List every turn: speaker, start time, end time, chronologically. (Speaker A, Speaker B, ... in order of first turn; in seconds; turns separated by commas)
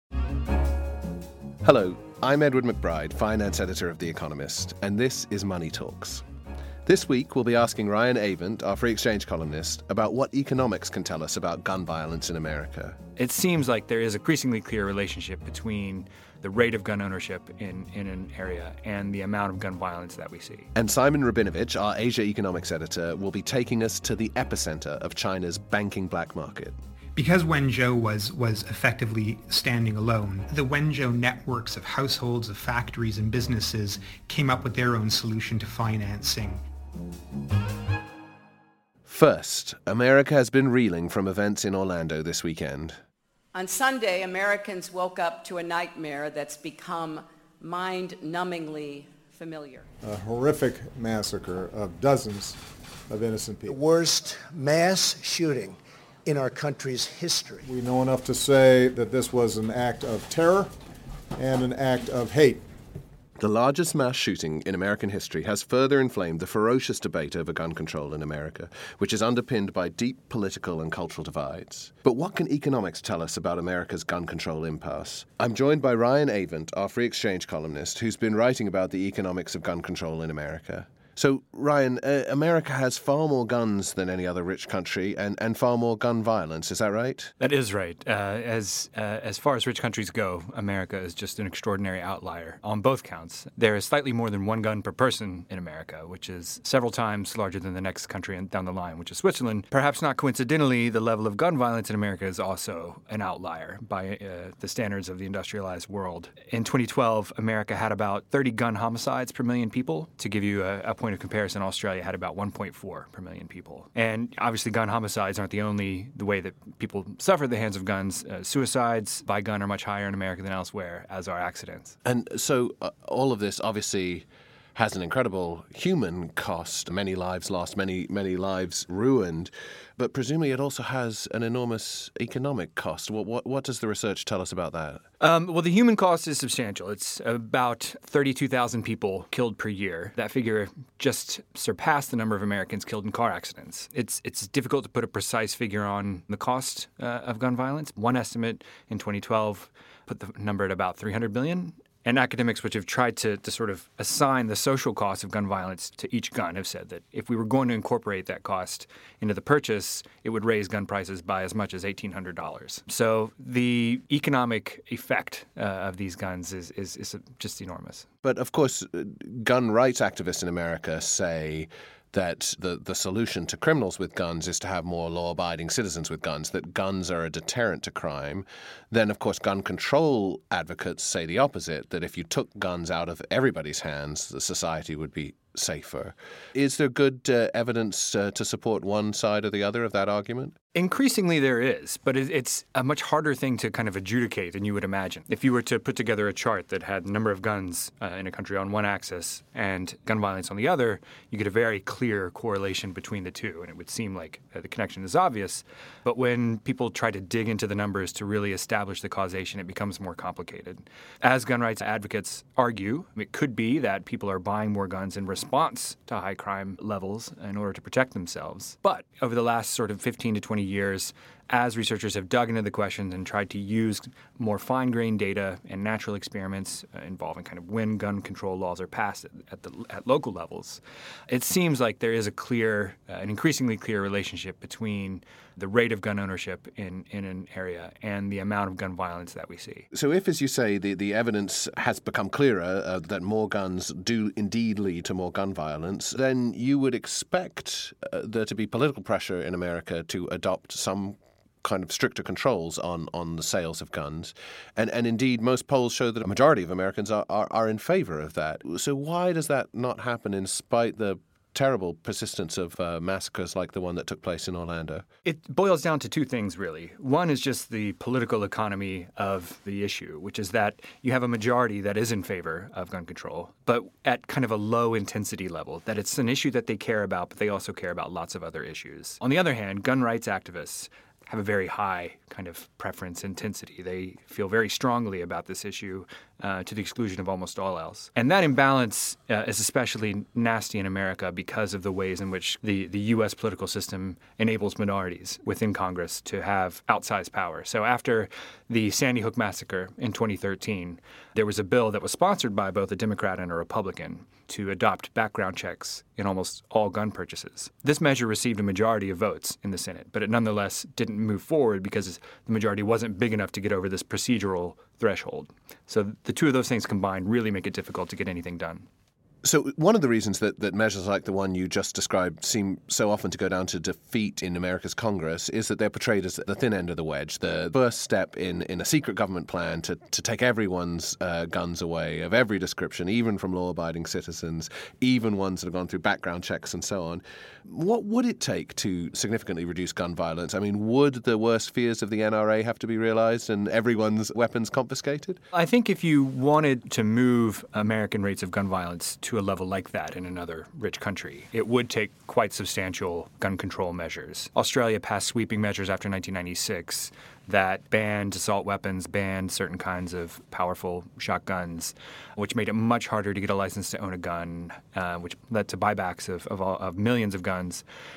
Speaker A: 1.6-6.2, Speaker A: 6.8-13.0, Speaker B: 13.2-20.7, Speaker A: 20.7-26.8, Speaker C: 27.1-36.6, Speaker A: 39.0-43.0, Speaker D: 43.5-49.8, Speaker E: 50.0-53.8, Speaker F: 53.7-57.7, Speaker E: 57.6-60.7, Speaker E: 61.4-62.6, Speaker A: 63.4-87.3, Speaker B: 87.4-122.0, Speaker A: 122.0-135.0, Speaker B: 135.2-168.0, Speaker A: 168.2-190.5, Speaker B: 190.7-239.8, Speaker A: 239.9-265.0, Speaker B: 265.2-318.9, Speaker A: 319.4-345.4, Speaker B: 345.5-367.8